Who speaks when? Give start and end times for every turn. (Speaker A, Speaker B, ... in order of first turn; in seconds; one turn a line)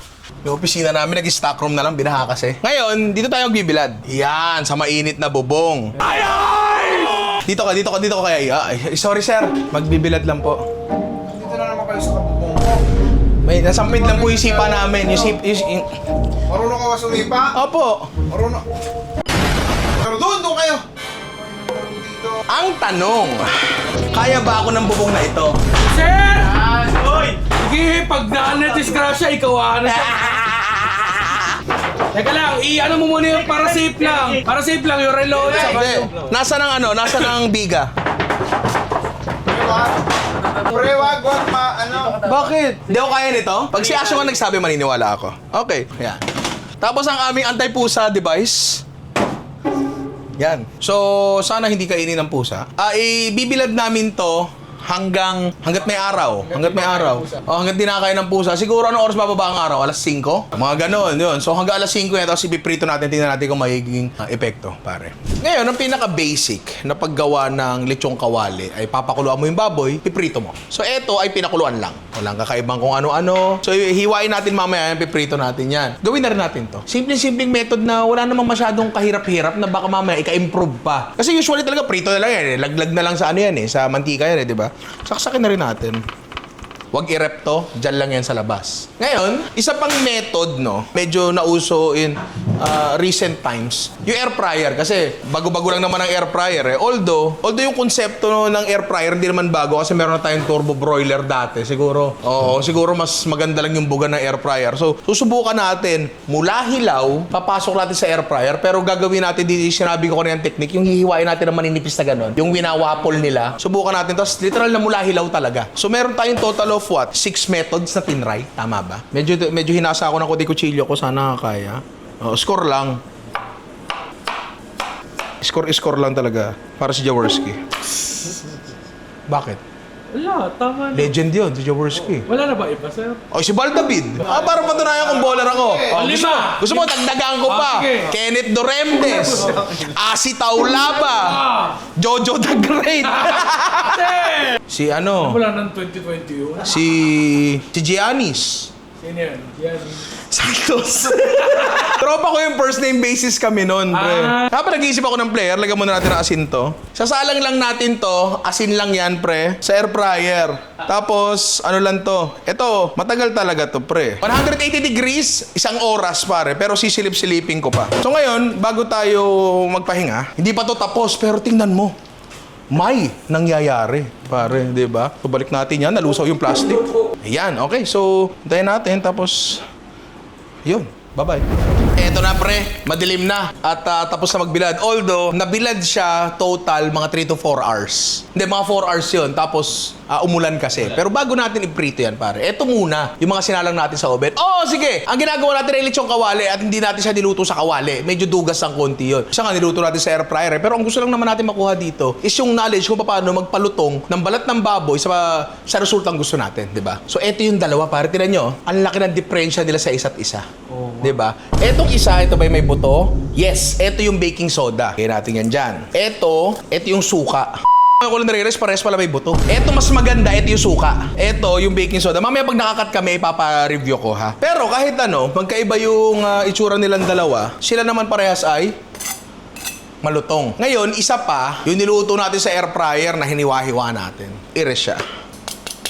Speaker A: 0.4-6.1
Speaker B: 6.0-7.3
Speaker A: 7.4-10.6
Speaker C: 11.3-12.9
Speaker A: 13.4-15.9
Speaker C: 13.7-15.4
Speaker C: 16.5-17.6
Speaker A: 17.5-18.1
Speaker C: 18.3-18.7
Speaker C: 19.9-22.4
Speaker A: 22.5-25.6
Speaker B: 25.8-30.4
Speaker A: 29.9-31.3
Speaker B: 32.1-36.2
Speaker A: 35.4-37.9
Speaker C: 39.5-42.2
Speaker A: 42.2-46.2
Speaker B: 43.8-44.3
Speaker A: 46.8-48.9
Speaker A: 50.4-86.0
Speaker B: 56.5-57.3
Speaker A: 86.9-123.0
Speaker A: 125.4-127.6
Speaker A: 129.3-129.6
Speaker B: 130.1-131.1
Speaker A: 130.9-132.2
Speaker B: 132.3-133.2
Speaker A: 133.3-141.4
Speaker C: 134.3-136.0
Speaker B: 135.9-136.9
Speaker B: 137.4-138.1
Speaker B: 139.3-139.6
Speaker B: 141.1-141.8
Speaker A: 141.9-144.1
Speaker B: 143.2-144.6
Speaker A: 144.7-145.4
Speaker B: 145.2-146.8
Speaker A: 146.6-148.7
Speaker B: 149.0-150.1
Speaker A: 150.3-171.9
Speaker B: 151.4-151.9
Speaker B: 153.9-154.5
Speaker A: 172.7-179.6
Speaker A: 180.7-210.5
Speaker B: 210.7-211.1
Speaker A: 211.0-228.8
Speaker A: 230.0-235.0